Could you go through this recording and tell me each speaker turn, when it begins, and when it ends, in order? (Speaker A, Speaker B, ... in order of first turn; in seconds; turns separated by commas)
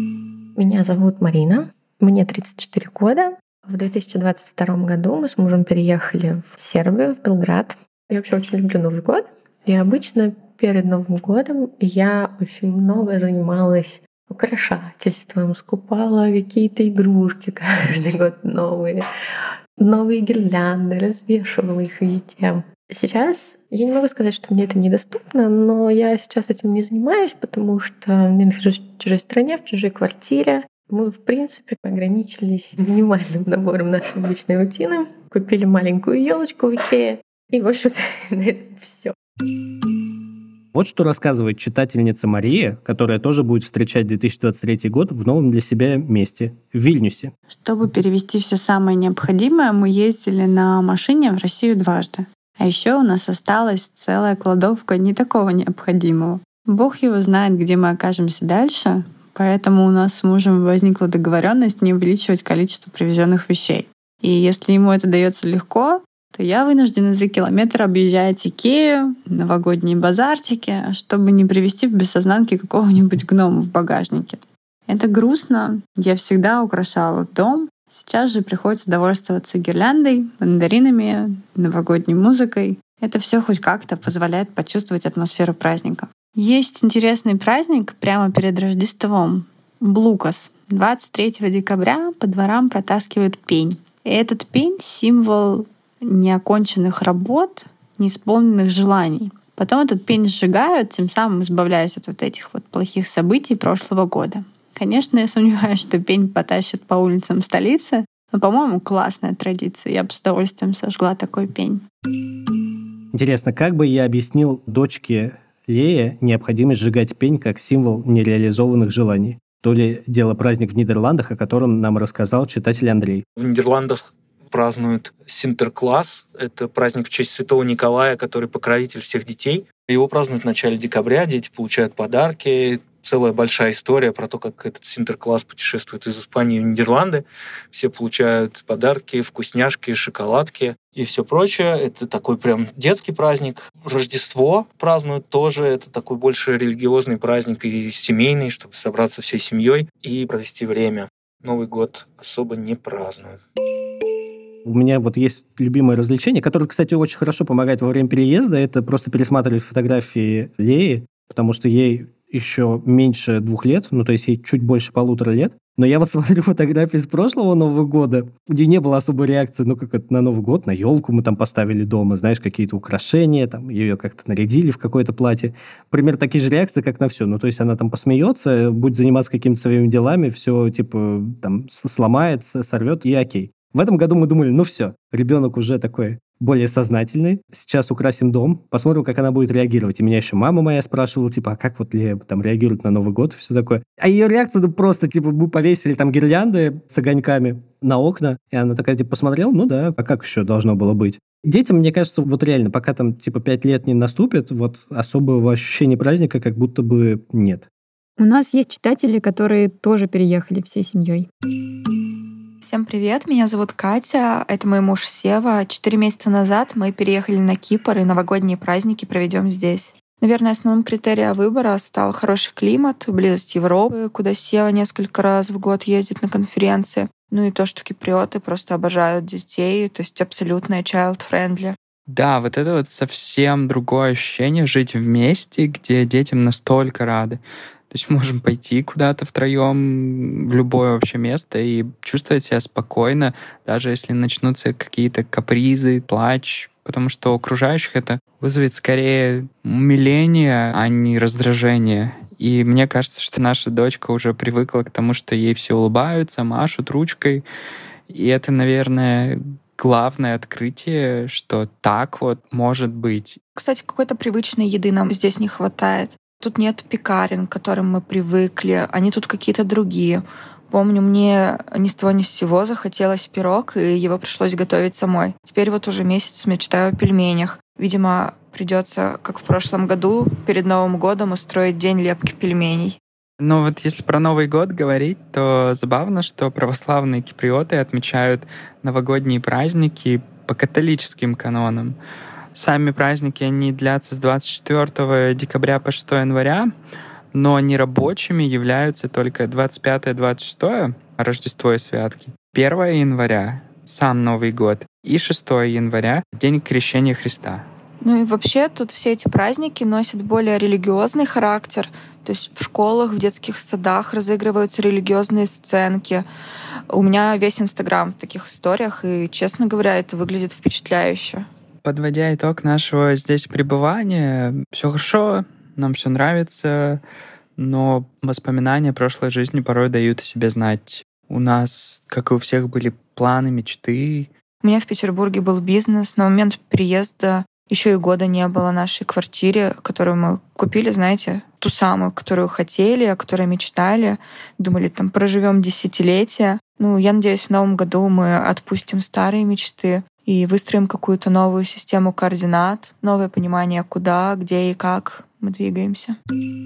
Speaker A: 0.6-19.0, Speaker A: 19.8-39.1, Speaker B: 40.7-47.3, Speaker C: 47.5-111.8, Speaker B: 113.1-123.2, Speaker D: 123.3-153.4, Speaker B: 154.6-207.7, Speaker E: 208.2-211.3, Speaker F: 212.6-231.8, Speaker G: 232.1-257.4, Speaker G: 258.1-263.4, Speaker F: 263.6-283.0, Speaker G: 283.4-292.0, Speaker G: 292.5-296.7, Speaker G: 297.3-307.6, Speaker F: 308.0-316.2, Speaker F: 316.9-321.4, Speaker G: 321.8-327.0, Speaker G: 327.6-334.3, Speaker F: 334.6-356.2